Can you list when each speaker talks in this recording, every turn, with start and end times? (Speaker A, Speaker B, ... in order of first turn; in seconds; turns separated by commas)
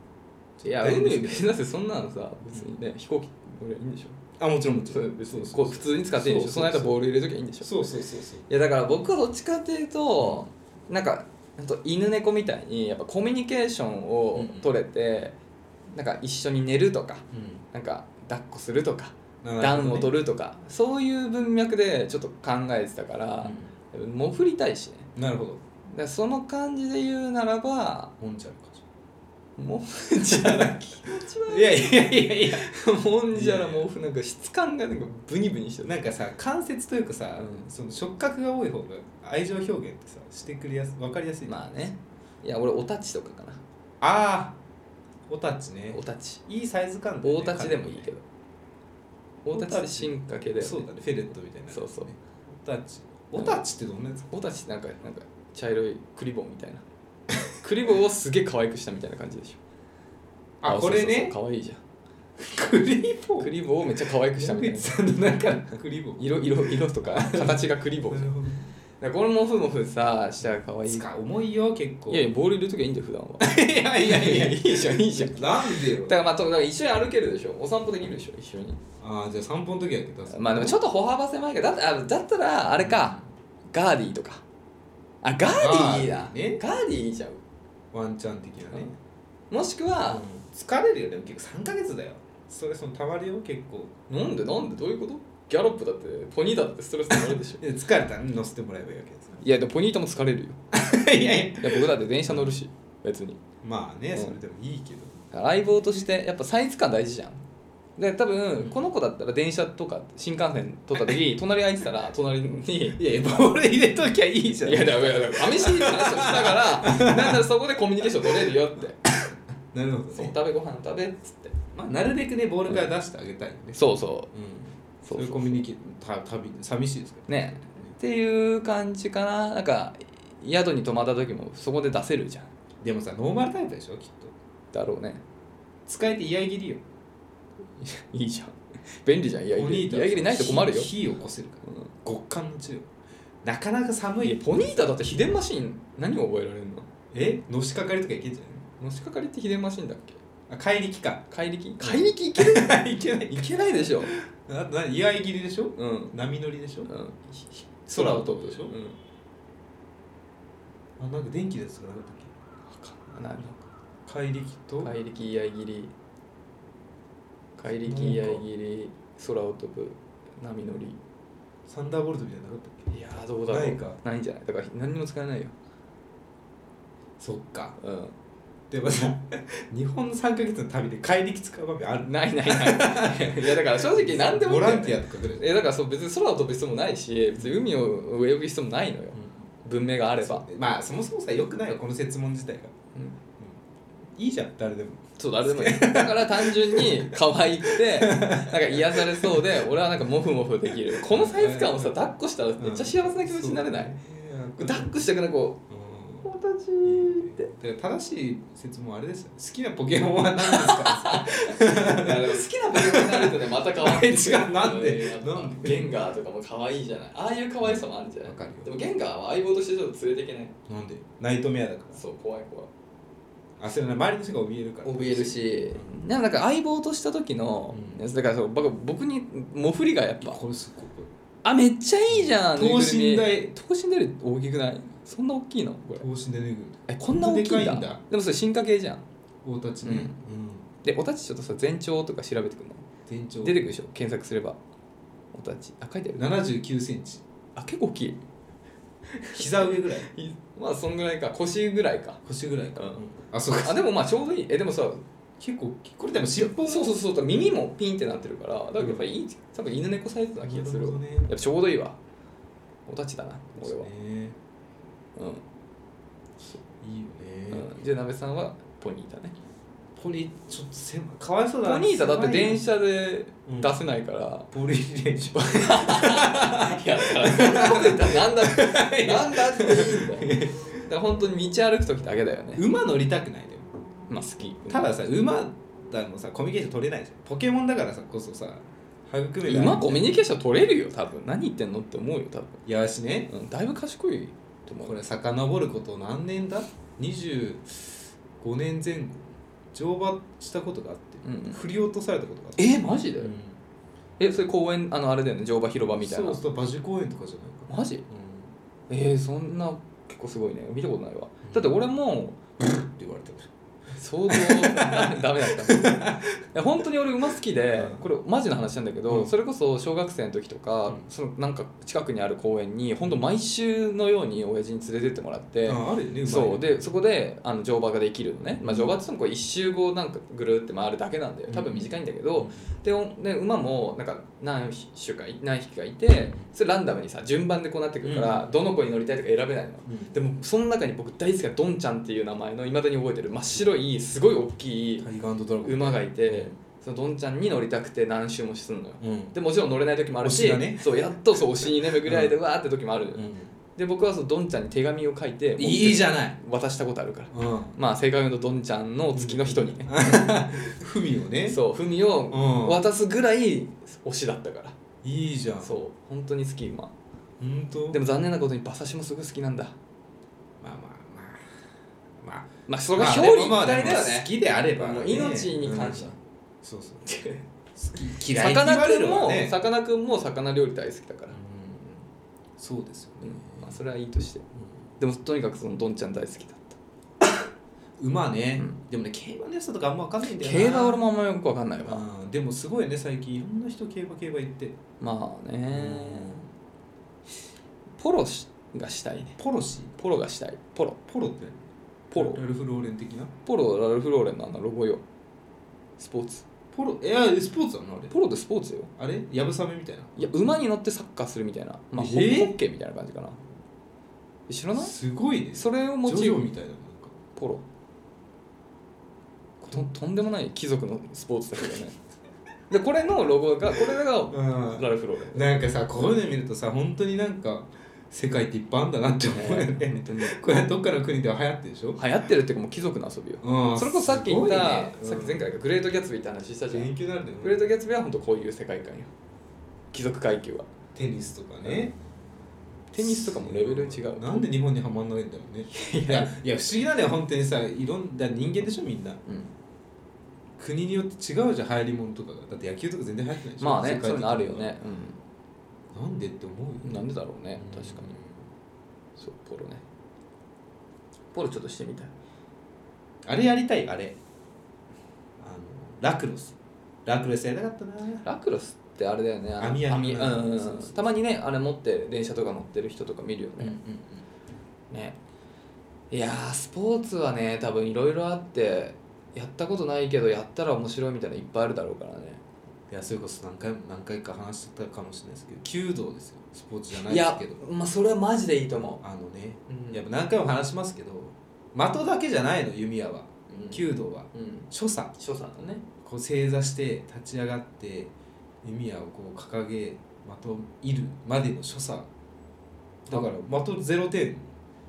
Speaker A: 0.6-7.8, Speaker B: 0.7-1.5, Speaker B: 4.4-7.0, Speaker B: 7.6-8.5, Speaker A: 8.5-15.4, Speaker B: 10.2-10.5, Speaker B: 14.3-14.7, Speaker A: 15.9-25.1, Speaker B: 17.3-17.6, Speaker B: 19.4-20.1, Speaker B: 23.4-23.7, Speaker B: 25.1-25.6, Speaker A: 25.9-28.1, Speaker B: 28.2-28.8, Speaker A: 29.6-36.0, Speaker B: 30.3-30.8, Speaker B: 31.5-33.9, Speaker B: 35.9-41.7, Speaker A: 37.4-37.7, Speaker A: 41.5-43.6, Speaker B: 44.0-44.6, Speaker B: 45.3-48.1, Speaker A: 45.9-46.4, Speaker A: 47.2-48.2, Speaker A: 49.5-50.9, Speaker B: 49.5-54.2, Speaker A: 51.7-52.1, Speaker A: 53.4-53.6, Speaker A: 54.2-56.8, Speaker A: 57.6-59.6, Speaker B: 60.6-61.3, Speaker A: 60.6-61.8, Speaker B: 62.4-63.5, Speaker A: 63.4-65.6, Speaker B: 64.3-68.7, Speaker A: 66.2-68.3, Speaker A: 69.0-71.1, Speaker B: 70.5-72.3, Speaker A: 72.1-78.8, Speaker B: 73.4-76.2, Speaker B: 79.0-80.8, Speaker A: 80.3-83.2, Speaker B: 82.8-83.3, Speaker A: 83.7-84.4, Speaker A: 85.2-87.4, Speaker B: 85.6-86.6, Speaker B: 87.9-89.0, Speaker A: 89.5-90.2, Speaker B: 90.1-93.9, Speaker A: 94.1-97.6, Speaker B: 97.1-99.5, Speaker A: 99.4-100.6, Speaker B: 100.7-102.6, Speaker A: 101.6-103.4, Speaker B: 103.6-105.2, Speaker A: 105.3-107.4, Speaker A: 108.0-113.0, Speaker B: 112.9-117.5, Speaker A: 114.6-119.0, Speaker B: 119.1-120.3, Speaker A: 120.1-121.6, Speaker B: 121.7-123.8, Speaker A: 123.8-124.3, Speaker B: 124.3-128.0, Speaker A: 125.0-125.6, Speaker A: 127.3-132.5, Speaker B: 132.8-134.3, Speaker A: 134.7-135.2, Speaker B: 135.9-136.8, Speaker A: 137.8-140.9, Speaker B: 139.5-142.9, Speaker A: 141.7-141.9, Speaker B: 143.4-144.5, Speaker A: 144.2-146.9, Speaker B: 147.1-148.6, Speaker A: 148.8-150.2, Speaker B: 150.5-151.3, Speaker A: 151.3-154.1, Speaker B: 151.8-156.9, Speaker A: 155.8-156.1, Speaker A: 156.9-159.0, Speaker B: 157.9-158.7, Speaker B: 161.0-162.3, Speaker A: 162.7-163.6, Speaker B: 164.1-164.9, Speaker A: 164.8-165.9, Speaker A: 167.6-171.0, Speaker B: 167.7-168.4, Speaker B: 171.7-172.9, Speaker A: 172.9-175.5, Speaker B: 173.5-174.0, Speaker B: 177.2-177.8, Speaker A: 177.8-178.1, Speaker B: 178.7-185.5, Speaker A: 182.0-190.5, Speaker B: 187.4-187.6, Speaker B: 189.1-189.5, Speaker B: 190.2-192.8, Speaker B: 194.2-199.7, Speaker A: 195.2-204.0, Speaker B: 201.0-202.1, Speaker B: 202.6-205.1, Speaker A: 204.6-205.6, Speaker B: 205.7-206.3, Speaker A: 206.2-207.5, Speaker B: 206.8-216.0, Speaker A: 210.4-220.6, Speaker B: 217.6-218.7, Speaker B: 220.7-222.0, Speaker A: 221.9-222.7, Speaker B: 223.6-225.9, Speaker A: 224.8-230.4, Speaker B: 227.7-228.0, Speaker B: 230.2-231.1, Speaker A: 231.4-236.1, Speaker B: 232.1-233.5, Speaker B: 236.0-238.0, Speaker A: 236.9-239.1, Speaker B: 239.4-240.7, Speaker A: 239.8-240.1, Speaker A: 240.8-242.9, Speaker B: 243.1-243.6, Speaker A: 243.4-244.6, Speaker A: 245.3-246.3, Speaker B: 246.2-247.2, Speaker A: 247.6-248.2, Speaker A: 249.2-252.2, Speaker B: 249.3-250.1, Speaker B: 252.2-253.8, Speaker A: 252.8-255.1, Speaker B: 255.4-257.0, Speaker A: 256.5-262.0, Speaker B: 260.4-261.3, Speaker A: 262.9-263.9, Speaker B: 263.6-264.4, Speaker A: 265.2-265.4, Speaker B: 266.8-267.7, Speaker A: 267.5-269.4, Speaker B: 270.0-272.6, Speaker A: 271.6-274.5, Speaker B: 273.5-273.7, Speaker B: 274.5-280.9, Speaker A: 275.3-282.6, Speaker B: 282.6-283.7, Speaker A: 284.1-284.9, Speaker B: 284.7-290.1, Speaker A: 289.4-292.6, Speaker B: 292.7-293.3, Speaker A: 293.3-295.0, Speaker B: 294.8-299.2, Speaker B: 299.7-303.6, Speaker A: 301.2-301.6, Speaker A: 302.6-303.3, Speaker A: 304.2-306.4, Speaker B: 305.9-308.5, Speaker A: 307.7-308.1, Speaker A: 308.9-312.4, Speaker B: 311.4-311.8, Speaker B: 312.6-313.5, Speaker A: 313.9-345.1, Speaker B: 314.3-316.4, Speaker B: 317.6-318.1, Speaker B: 319.1-319.3, Speaker B: 325.6-327.0, Speaker B: 328.6-329.0, Speaker B: 331.5-332.7, Speaker B: 336.1-336.5, Speaker B: 338.0-338.6, Speaker B: 339.9-340.1, Speaker B: 345.0-346.6, Speaker A: 345.6-353.2, Speaker B: 349.0-349.4, Speaker B: 350.2-352.4, Speaker B: 353.1-353.6, Speaker A: 353.8-360.3, Speaker B: 355.6-356.4, Speaker B: 357.3-357.8, Speaker B: 359.1-361.6, Speaker A: 361.5-364.8, Speaker B: 362.3-362.8, Speaker B: 365.0-365.8, Speaker A: 365.6-366.9, Speaker B: 367.4-368.0, Speaker A: 367.9-369.8, Speaker B: 370.6-371.4, Speaker B: 372.2-377.1, Speaker A: 372.7-376.1, Speaker A: 377.1-377.4, Speaker B: 377.8-379.6, Speaker A: 378.3-381.4, Speaker B: 381.3-382.1, Speaker B: 382.6-383.8, Speaker A: 383.2-384.4, Speaker A: 385.0-386.8, Speaker B: 388.0-391.0, Speaker A: 390.3-392.1, Speaker B: 391.9-394.8, Speaker A: 395.0-396.4, Speaker B: 395.7-396.5, Speaker A: 398.0-399.4, Speaker B: 399.4-399.9, Speaker A: 400.0-401.0, Speaker B: 401.1-401.6, Speaker A: 402.1-402.4, Speaker B: 402.1-403.3, Speaker A: 403.4-405.0, Speaker A: 406.0-406.5, Speaker B: 406.7-408.1, Speaker A: 408.1-408.9, Speaker B: 409.0-410.5, Speaker A: 410.2-413.4, Speaker B: 412.0-412.6, Speaker A: 414.5-414.9, Speaker B: 414.8-417.2, Speaker A: 415.5-416.5, Speaker A: 417.3-417.6, Speaker B: 419.6-419.9, Speaker A: 419.7-422.0, Speaker A: 422.7-425.5, Speaker B: 424.3-432.0, Speaker A: 429.3-430.4, Speaker A: 432.0-439.1, Speaker B: 433.4-435.5, Speaker B: 436.7-437.6, Speaker A: 439.9-440.7, Speaker B: 440.9-442.0, Speaker A: 442.9-444.5, Speaker B: 443.0-449.2, Speaker A: 445.7-446.3, Speaker A: 449.3-449.5, Speaker B: 450.6-454.8, Speaker A: 453.6-455.2, Speaker B: 455.9-458.4, Speaker A: 456.8-458.1, Speaker A: 459.2-459.8, Speaker A: 461.3-462.1, Speaker B: 463.2-464.2, Speaker B: 465.4-466.6, Speaker B: 467.1-468.3, Speaker A: 468.2-473.8, Speaker B: 469.6-471.1, Speaker B: 473.6-474.2, Speaker A: 474.9-475.2, Speaker A: 476.1-482.4, Speaker B: 482.9-487.6, Speaker A: 486.9-489.0, Speaker B: 488.8-495.1, Speaker A: 489.7-490.0, Speaker A: 493.5-495.9, Speaker B: 496.0-502.1, Speaker B: 503.1-504.5